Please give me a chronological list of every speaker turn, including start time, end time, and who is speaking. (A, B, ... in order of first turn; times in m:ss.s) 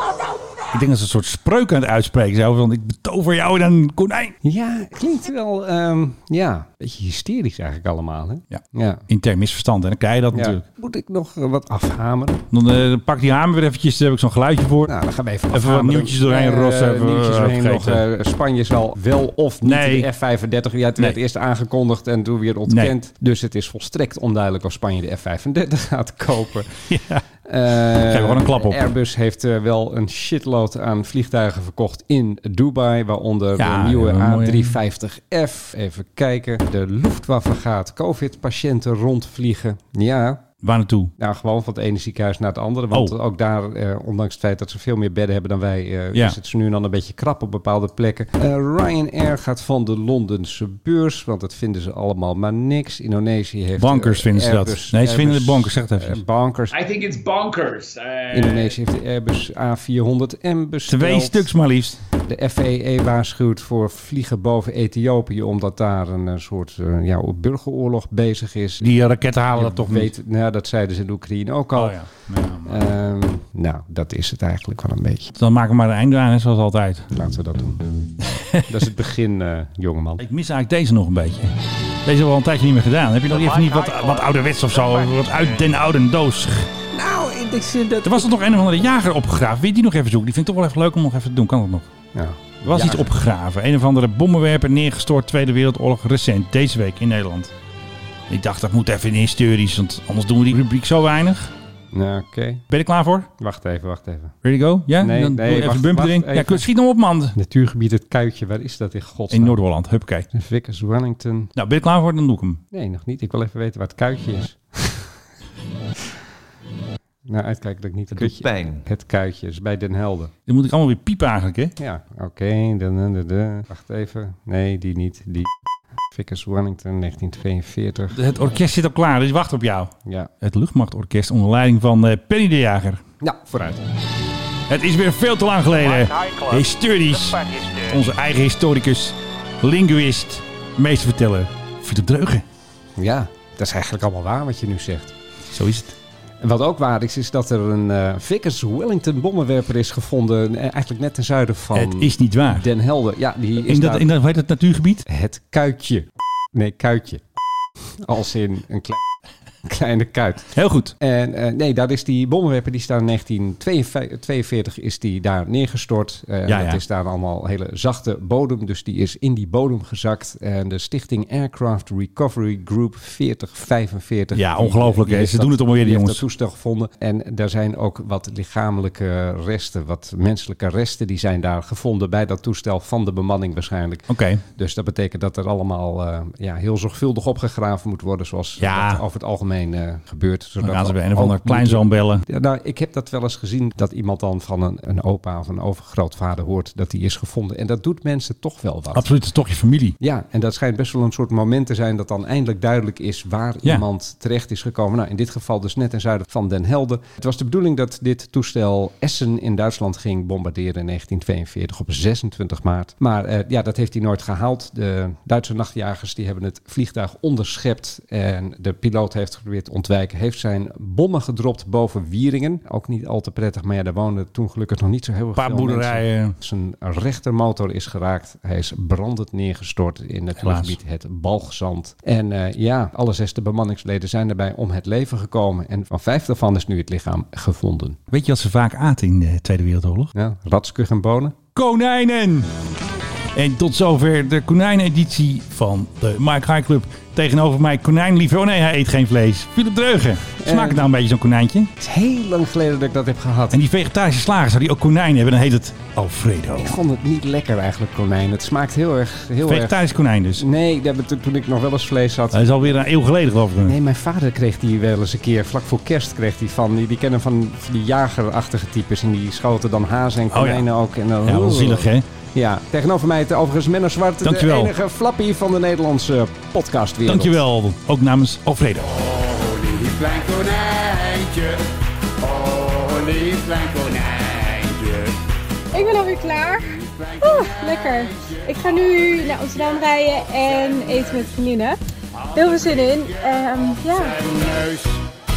0:00.7-0:04.4 A
0:04.4-0:09.0 B
0:08.5-0:10.6 A
0:10.3-0:12.4 B
0:12.5-0:14.9 A
0:14.9-0:26.9 B
0:15.5-0:18.0 A
0:19.6-0:20.1 A
0:22.7-0:22.9 A
0:26.9-0:28.8 A
0:27.4-0:40.5 B
0:33.6-0:34.8 A
0:40.6-0:41.1 A
0:41.2-0:56.7 B
0:53.8-0:56.2 A
0:56.7-0:58.8 C
0:58.3-1:01.5 B
1:00.9-1:02.0 A
1:02.2-1:09.0 B
1:08.8-1:10.1 A
1:09.5-1:12.0 B
1:11.7-1:12.8 A
1:12.6-1:15.3 B
1:15.4-1:17.1 A
1:17.1-1:17.8 B
1:18.2-1:18.9 A
1:18.6-1:20.2 B
1:20.2-1:26.7 A
1:26.9-1:28.4 B
1:28.0-1:31.9 A
1:32.1-1:33.1 B
1:32.6-1:37.5 A
1:38.3-1:41.5 A
1:41.9-1:42.6 B
1:42.7-1:43.3 A
1:43.4-1:44.4 B
1:44.4-1:47.4 A
1:45.0-1:46.7 B
1:47.3-1:49.6 B
1:49.3-1:50.3 A
1:50.3-1:51.5 B
1:51.6-1:52.6 A
1:52.7-1:55.1 B
1:57.2-2:00.3 B
2:00.5-2:01.7 A
2:01.8-2:05.5 B
2:06.1-2:08.2 B
2:08.1-2:13.0 A
2:13.2-2:13.8 B
2:14.7-2:22.4 A
2:23.0-2:25.1 B
2:25.5-2:26.0 A
2:26.4-2:34.1 B
2:31.7-2:32.7 A
2:33.6-2:35.0 A
2:35.0-2:37.2 B
2:38.0-2:39.0 B
2:39.6-3:19.0 B
2:40.5-2:40.9 A
2:46.5-2:46.8 A
2:54.3-2:56.2 A
3:04.1-3:04.4 A
3:08.6-3:09.0 A
3:10.6-3:12.2 A
3:18.9-3:20.0 A
3:20.0-3:58.0 B
3:45.4-3:46.4 A
3:50.4-3:50.8 A
3:58.1-4:00.1 A
4:00.1-4:01.4 B
4:01.5-4:02.5 A
4:03.3-4:11.7 A
4:10.4-4:10.9 B
4:11.8-4:13.6 B
4:13.5-4:16.8 A
4:16.6-4:19.8 B
4:19.4-4:20.4 A
4:20.4-4:22.8 B
4:22.3-4:23.8 A
4:23.6-4:37.4 B
4:30.3-4:30.7 A
4:31.2-4:32.0 A
4:34.2-4:34.7 A
4:37.0-4:38.9 A
4:38.8-4:45.2 D
4:45.7-4:51.8 E
4:46.6-4:49.8 D
4:50.4-4:50.8 D
4:52.2-4:55.0 D
4:52.3-4:54.2 E